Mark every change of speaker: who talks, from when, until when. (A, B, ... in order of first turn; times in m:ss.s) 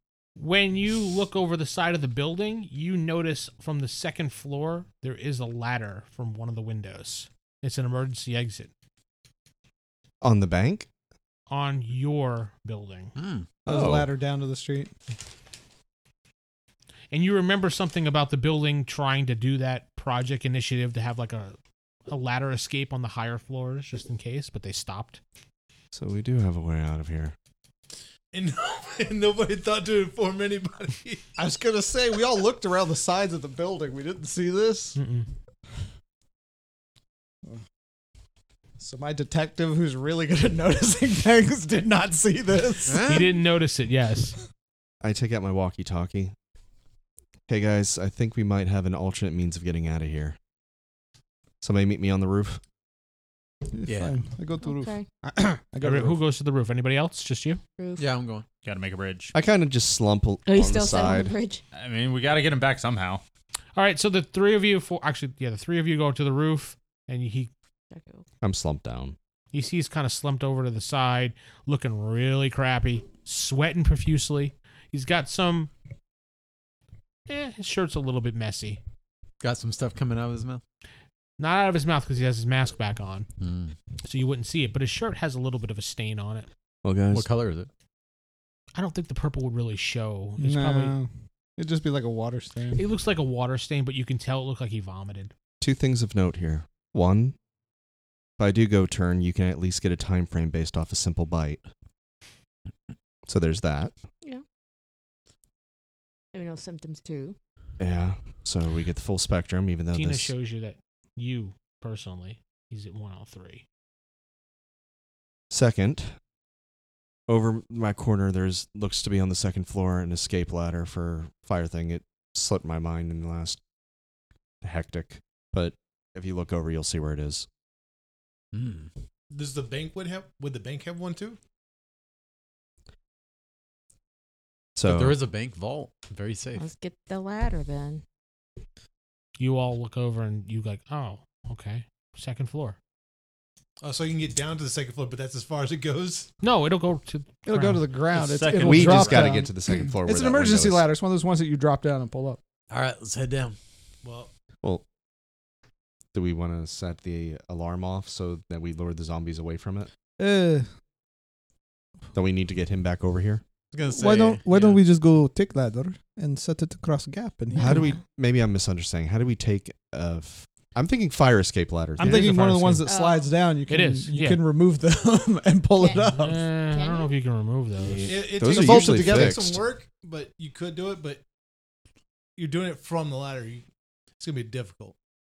0:00.4-0:08.7 A
0:10.2-0:10.9 B
0:11.5-0:13.1 A
0:13.2-0:13.5 C
0:13.7-0:14.1 B
0:13.7-0:14.9 D
0:17.1-0:21.6 A
0:22.1-0:25.2 A
0:25.9-0:27.3 B
0:28.3-0:31.3 E
0:31.4-0:35.0 D
0:35.0-0:35.3 A
0:38.8-0:43.3 D
0:42.9-0:43.3 C
0:43.0-0:44.4 A
0:45.0-0:46.3 B
0:47.5-0:50.4 B
0:51.6-0:52.6 B
0:53.7-0:56.2 D
0:53.9-0:54.2 C
0:54.6-0:55.1 F
0:55.8-0:57.6 A
0:57.8-0:58.1 F
0:58.0-0:58.4 C
0:58.6-0:59.3 G
0:59.3-1:01.3 B
1:00.4-1:01.6 F
1:01.7-1:03.2 G
1:03.8-1:07.5 A
1:07.9-1:08.2 F
1:08.4-1:09.2 B
1:09.5-1:15.7 A
1:17.3-1:18.8 A
1:19.4-1:20.6 C
1:21.4-1:23.3 A
1:23.4-1:23.7 C
1:24.0-1:26.5 A
1:26.8-1:27.3 B
1:27.1-1:27.7 C
1:28.7-1:30.9 A
1:30.4-1:32.8 D
1:32.7-1:35.3 A
1:35.6-1:37.4 B
1:38.4-1:41.6 B
1:43.3-1:43.9 B
1:46.3-1:47.4 F
1:47.8-1:50.3 B
1:49.9-1:53.6 A
1:55.5-1:56.2 B
1:57.3-2:03.6 B
2:04.6-2:07.5 B
2:08.5-2:08.9 C
2:09.3-2:11.4 E
2:14.8-2:15.2 B
2:14.8-2:16.6 C
2:16.6-2:18.0 F
2:19.4-2:22.8 A
2:23.8-2:26.3 E
2:26.4-2:27.9 A
2:27.4-2:32.4 D
2:28.1-2:29.4 G
2:28.5-2:30.9 B
2:32.7-2:33.6 C
2:34.0-2:34.3 E
2:36.1-2:39.9 B
2:40.2-2:40.6 D
2:42.1-2:43.4 B
2:43.7-2:44.8 C
2:43.9-2:47.9 D
2:47.5-2:52.3 B
2:52.0-2:52.9 A
2:52.0-2:56.4 D
2:52.8-2:53.3 F
2:53.7-2:54.4 A
2:55.8-2:57.1 F
2:55.9-2:58.1 A
2:57.8-2:59.6 B
2:58.0-3:01.2 E
2:58.4-2:59.5 D
3:02.4-3:03.6 E
3:04.2-3:04.9 E